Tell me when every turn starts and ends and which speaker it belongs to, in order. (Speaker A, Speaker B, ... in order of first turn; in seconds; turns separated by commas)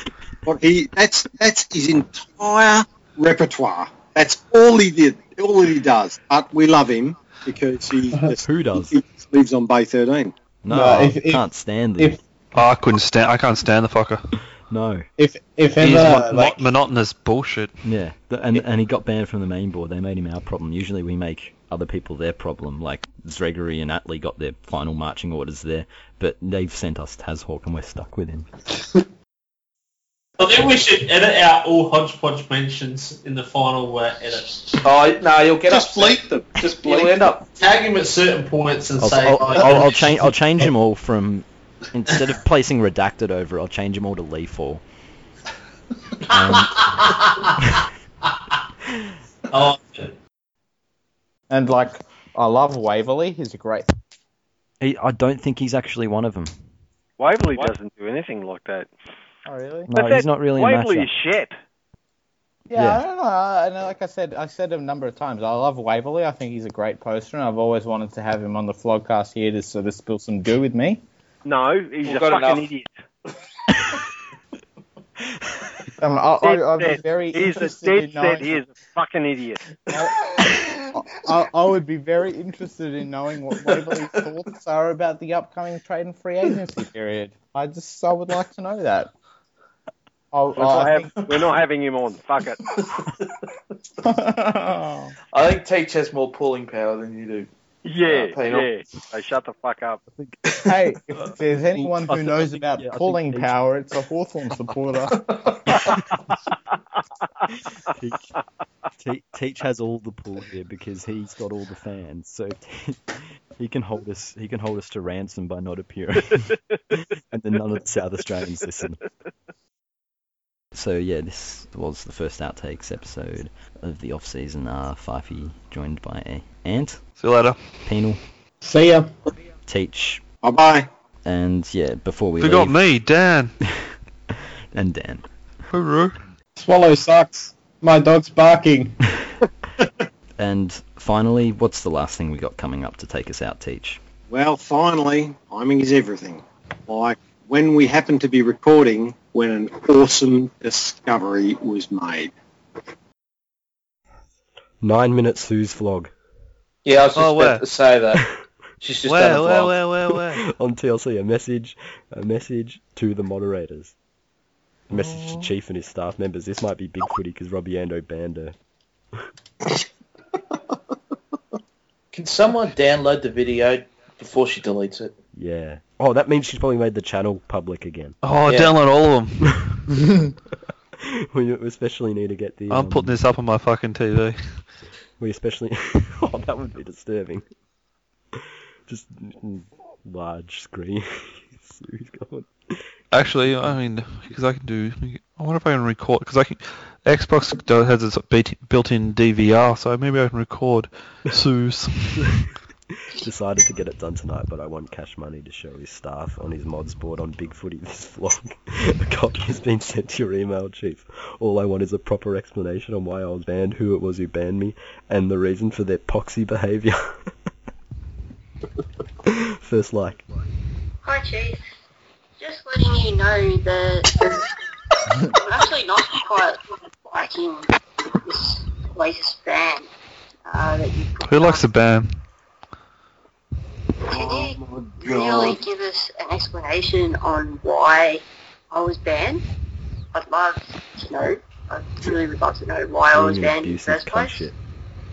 Speaker A: 0.5-10.3, Speaker B: 8.4-9.0, Speaker B: 10.6-12.2, Speaker C: 10.7-11.4, Speaker D: 12.6-14.2, Speaker B: 14.7-15.1, Speaker C: 15.2-16.6, Speaker D: 15.8-17.7, Speaker B: 17.8-28.5, Speaker E: 30.4-34.8, Speaker F: 34.8-37.5, Speaker E: 36.6-40.1, Speaker B: 39.0-44.8, Speaker B: 46.3-47.8, Speaker E: 49.5-50.1, Speaker G: 51.5-53.9, Speaker B: 54.8-56.5, Speaker H: 57.2-58.9, Speaker G: 59.5-59.9, Speaker B: 59.9-61.1, Speaker H: 59.9-61.5, Speaker G: 62.7-71.0, Speaker B: 62.8-63.0, Speaker H: 71.5-72.9, Speaker F: 72.0-72.7, Speaker G: 76.0-78.6, Speaker H: 76.4-79.6, Speaker G: 80.9-89.1, Speaker G: 90.3-91.4, Speaker H: 90.6-92.6, Speaker G: 94.0-95.1, Speaker F: 95.3-97.5, Speaker H: 97.8-100.0, Speaker F: 98.0-98.7, Speaker G: 100.7-105.2, Speaker B: 101.8-103.6, Speaker B: 107.9-108.3, Speaker B: 109.0-119.0, Speaker B: 120.7-127.0, Speaker D: 127.2-127.6, Speaker B: 127.8-128.2, Speaker C: 128.6-129.1, Speaker B: 129.7-130.2, Speaker A: 130.4-130.9, Speaker B: 131.2-132.8, Speaker D: 132.4-133.5, Speaker B: 134.7-135.3, Speaker D: 135.7-136.2, Speaker C: 136.6-139.0, Speaker B: 140.4-144.0, Speaker A: 144.3-152.3, Speaker B: 154.8-156.1, Speaker F: 156.8-158.2, Speaker D: 157.2-157.6, Speaker F: 158.8-159.8, Speaker D: 159.1-160.4, Speaker B: 160.1-163.9, Speaker B: 164.9-168.6, Speaker D: 165.0-165.4, Speaker F: 172.1-175.2, Speaker B: 175.3-178.2, Speaker D: 178.2-179.5, Speaker F: 178.5-178.7, Speaker B: 181.0-183.2, Speaker D: 182.7-184.4, Speaker B: 185.2-187.4, Speaker B: 188.4-192.8, Speaker D: 193.1-202.2, Speaker B: 203.1-217.1, Speaker B: 219.3-220.2, Speaker I: 221.0-221.6, Speaker I: 222.4-224.4, Speaker I: 225.3-227.7, Speaker I: 228.2-229.9, Speaker I: 230.5-231.7, Speaker D: 231.3-232.2, Speaker A: 234.1-235.6, Speaker I: 234.1-239.4, Speaker I: 240.1-244.5, Speaker B: 243.1-244.6